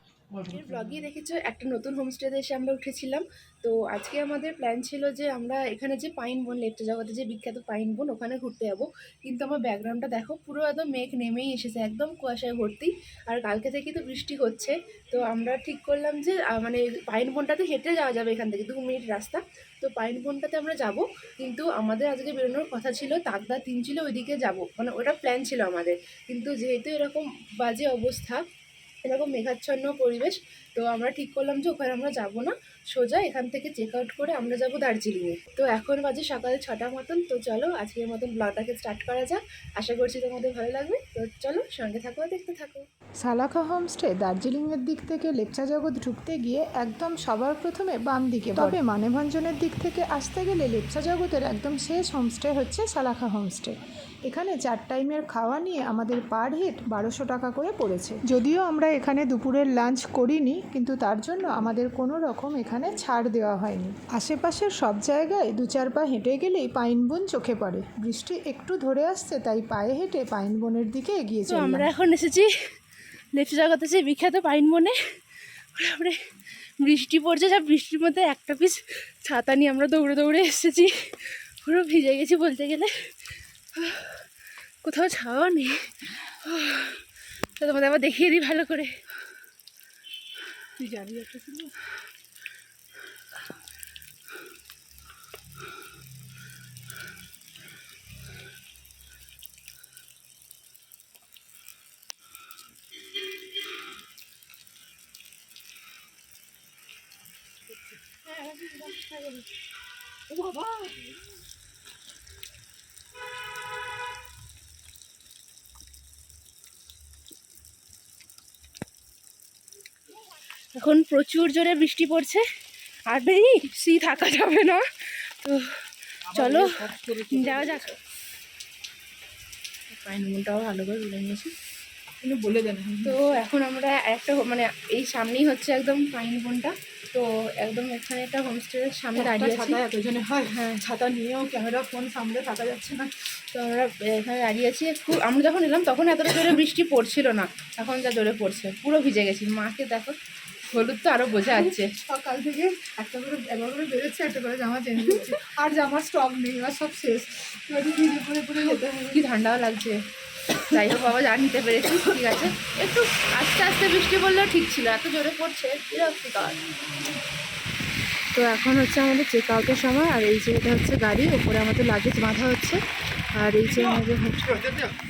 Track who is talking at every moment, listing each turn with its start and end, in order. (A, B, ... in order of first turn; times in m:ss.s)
0:00.4-0:28.4 A
0:29.0-0:42.8 A
0:43.2-0:53.8 B
0:54.3-1:11.9 B
1:11.5-1:12.5 A
1:13.3-1:15.0 A
1:15.8-1:16.2 A
1:16.8-1:23.1 A
1:23.8-1:24.2 A
1:24.8-1:27.0 A
1:27.6-1:28.9 A
1:30.8-1:31.7 C
2:00.8-2:02.4 A
2:03.1-2:08.0 A
2:09.9-2:11.5 A
2:12.2-2:13.0 C
2:13.0-2:19.8 A
2:19.4-2:20.4 C
2:20.5-2:21.0 A
2:21.6-2:23.0 C
2:23.4-2:30.2 A
2:30.7-2:31.9 A
2:32.0-2:35.7 C
2:32.2-2:38.7 B
2:38.1-2:38.5 C
2:38.6-2:40.0 A
2:40.6-2:46.6 A
2:48.3-2:52.8 A
2:53.4-2:54.8 A